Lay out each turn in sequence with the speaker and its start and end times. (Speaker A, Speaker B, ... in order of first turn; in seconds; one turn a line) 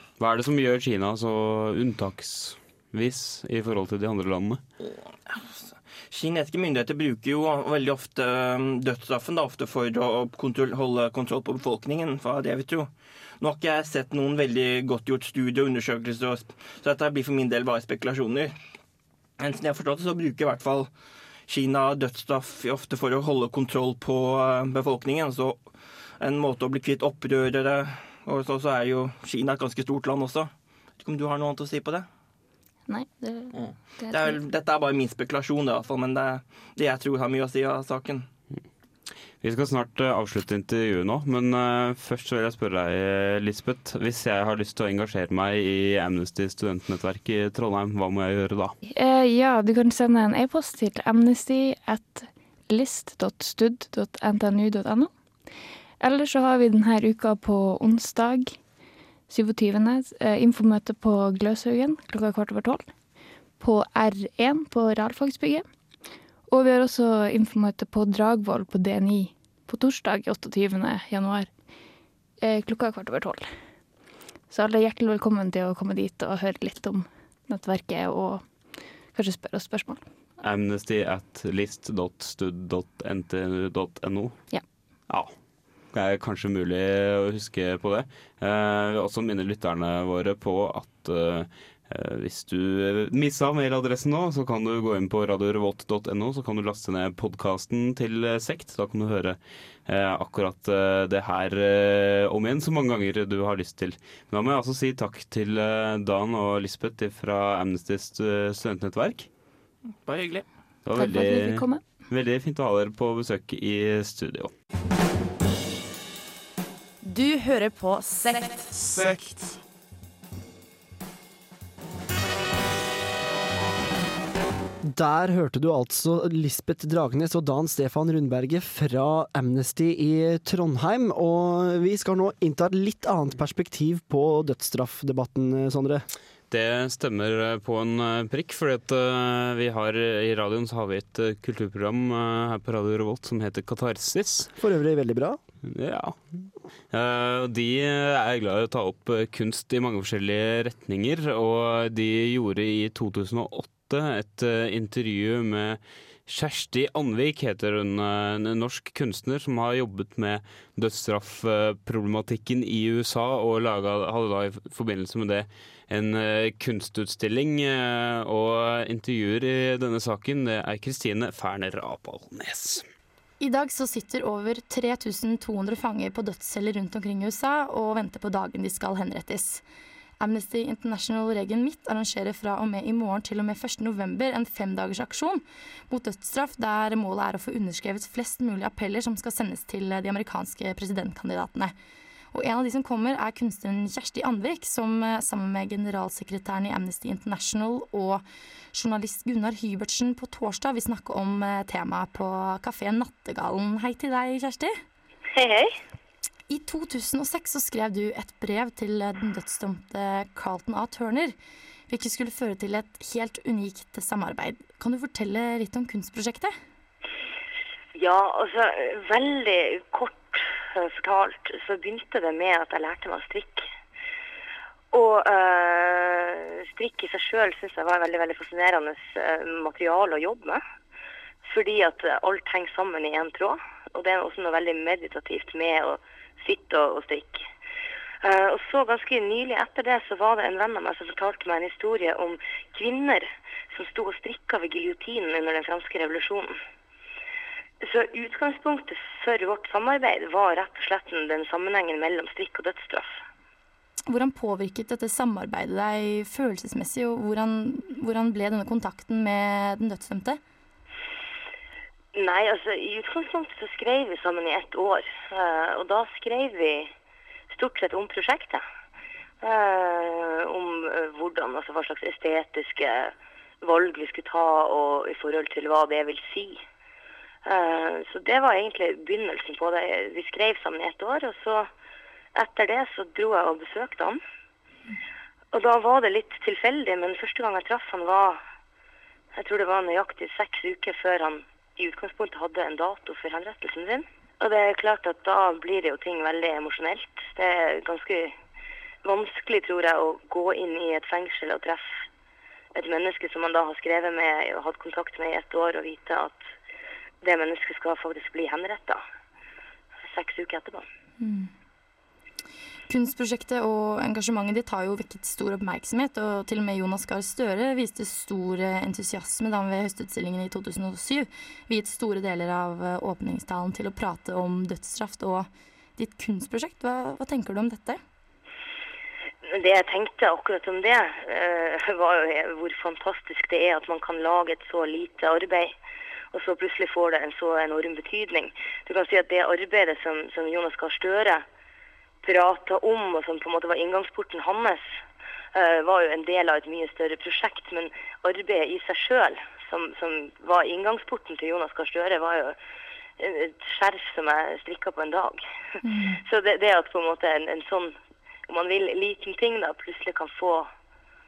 Speaker A: 0.2-4.6
Speaker B: 4.8-18.5
Speaker B: 19.4-20.9
Speaker B: 21.5-25.6
Speaker B: 26.2-32.1
Speaker C: 32.9-34.4
Speaker B: 33.5-38.3
Speaker A: 39.4-48.7
Speaker C: 48.9-55.1
Speaker C: 56.0-58.6
Speaker C: 59.3-62.9
Speaker C: 63.6-65.6
Speaker C: 66.5-71.5
Speaker C: 72.4-73.5
Speaker C: 74.5-78.5
Speaker C: 79.1-80.0
Speaker A: 80.4-84.4
Speaker A: 85.9-109.3
Speaker B: 110.0-110.5
Speaker A: 110.8-114.5
Speaker C: 110.9-111.8
Speaker D: 117.0-119.1
Speaker E: 124.8-136.0
Speaker A: 136.5-144.5
Speaker E: 144.6-145.4
Speaker A: 145.6-172.8
Speaker F: 173.4-179.6
Speaker F: 180.2-191.7
Speaker F: 192.3-204.7
Speaker G: 205.3-205.7
Speaker F: 206.5-211.3
Speaker F: 211.9-216.5
Speaker G: 217.9-223.6
Speaker G: 224.9-230.6
Speaker G: 231.4-237.4
Speaker G: 238.2-246.5
Speaker G: 247.8-253.2
Speaker F: 254.1-260.4
Speaker G: 262.1-266.9
Speaker G: 267.5-268.6
Speaker G: 269.4-276.6
Speaker G: 277.4-281.7
Speaker G: 282.4-284.2
Speaker G: 285.5-288.4
Speaker G: 289.3-298.3
Speaker G: 299.0-301.9
Speaker G: 302.7-306.4
Speaker G: 307.2-309.0
Speaker G: 310.1-310.9
Speaker F: 311.2-311.5
Speaker F: 312.9-328.0
Speaker G: 329.4-335.8
Speaker G: 336.3-341.4
Speaker G: 342.2-344.8
Speaker G: 345.5-352.6
Speaker G: 353.2-355.4
Speaker F: 355.8-356.2
Speaker G: 356.2-357.9
Speaker G: 358.5-360.7